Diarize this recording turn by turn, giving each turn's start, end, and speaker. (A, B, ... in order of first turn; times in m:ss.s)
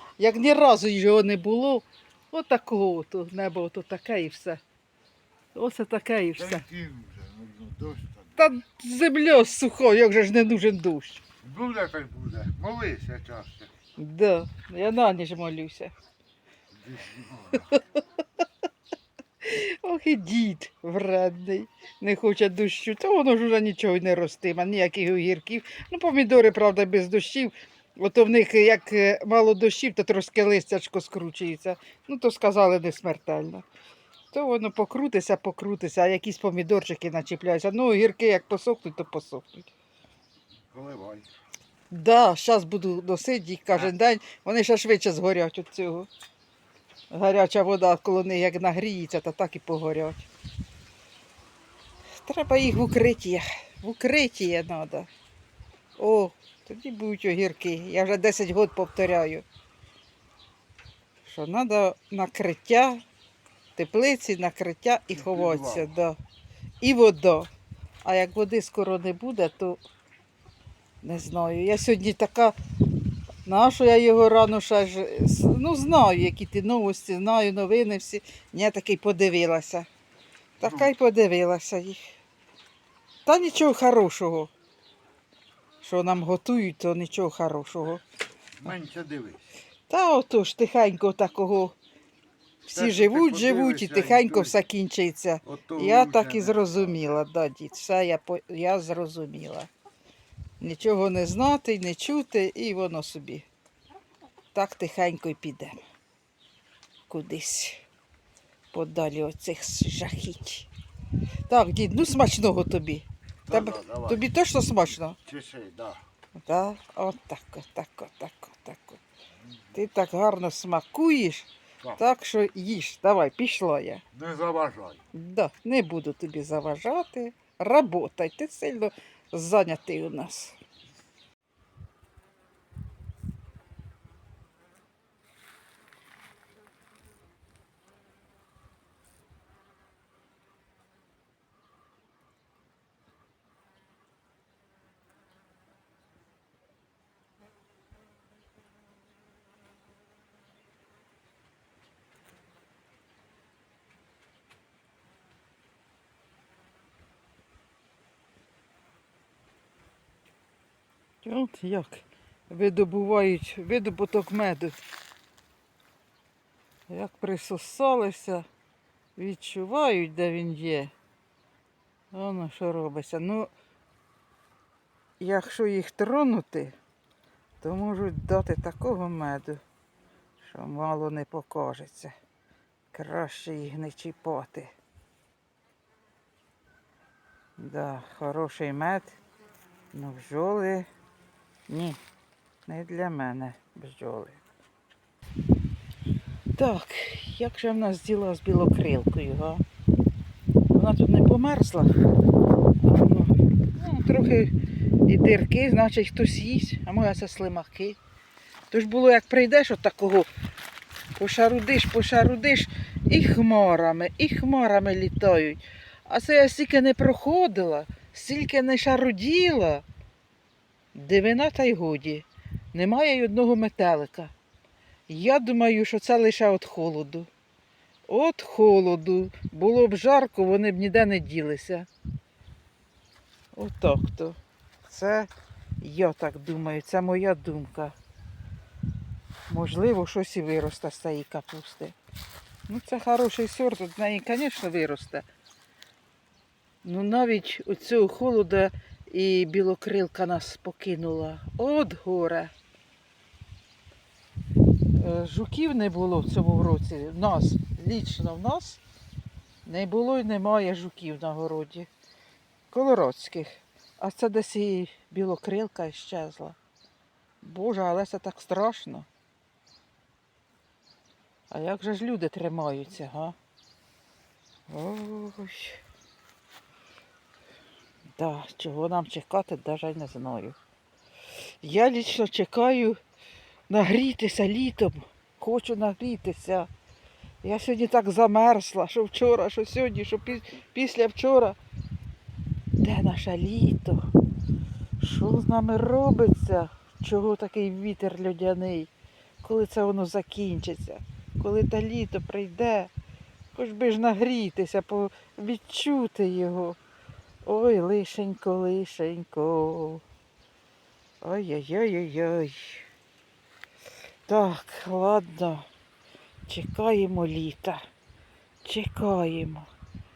0:00.2-0:04.6 A
0:05.6-0:06.6 A
0:06.4-0:08.4 B
0:08.4-0:11.2 A
0:11.4-0:13.7 B
0:14.0-0:15.9 A
0:16.7-0:17.7 B
0:19.4-0:33.7 A
0:34.3-0:39.7 A
0:40.7-0:41.3 B
0:41.9-0:46.1 A
0:47.1-0:50.3 A
0:52.2-0:55.1 A
0:56.0-0:59.4 A
1:01.2-1:03.0 A
1:03.8-1:06.2 A
1:05.1-1:05.9 B
1:06.8-1:07.5 A
1:08.0-1:09.8 A
1:11.0-1:12.6 A
1:13.4-1:19.9 A
1:20.6-1:22.0 A
1:20.6-1:20.9 B
1:23.3-1:24.5 A
1:25.8-1:28.0 A
1:28.6-1:29.5 B
1:29.9-1:31.8 A
1:32.7-1:39.7 A
1:32.7-1:34.6 B
1:35.4-1:37.0 B
1:40.6-1:43.5 A
1:44.5-1:45.8 A
1:47.1-1:47.8 A
1:48.7-1:50.7 A
1:51.5-1:55.2 A
1:53.5-1:54.3 B
1:55.3-1:56.0 B
1:56.4-1:59.0 A
1:59.7-2:04.0 A
2:04.1-2:05.0 B
2:05.1-2:10.6 A
2:41.2-2:44.8 A
2:46.9-2:48.5 A
2:49.2-2:50.9 A
2:52.1-2:53.5 A
2:55.2-2:56.8 A
2:57.6-2:59.6 A
3:00.4-3:02.2 A
3:02.9-3:04.7 A
3:07.6-3:09.2 A
3:09.9-3:10.9 A
3:11.7-3:12.0 A
3:12.7-3:14.4 A
3:16.6-3:19.6 A
3:20.7-3:21.9 A
3:22.8-3:24.5 A
3:25.1-3:28.0 A
3:28.7-3:30.3 A
3:31.2-3:39.8 A
3:40.9-3:44.3 A
3:45.1-3:47.3 A
3:48.1-3:51.9 A
3:53.5-3:55.3 A
3:55.8-3:58.0 A
3:59.5-4:02.0 A
4:02.7-4:05.3 A
4:06.8-4:12.5 A
4:14.9-4:18.8 A
4:19.6-4:21.9 A
4:22.7-4:26.6 A
4:27.4-4:29.1 A
4:31.5-4:33.4 A
4:34.7-4:35.8 A
4:38.2-4:40.6 A
4:41.6-4:43.0 A
4:43.7-4:46.7 A
4:47.4-4:51.6 A
4:52.8-4:54.1 A
4:55.0-4:58.9 A
4:59.4-5:02.9 A
5:03.5-5:06.8 A
5:07.4-5:10.0 A
5:11.2-5:12.9 A
5:14.3-5:15.7 A
5:16.5-5:17.9 A
5:18.6-5:19.7 A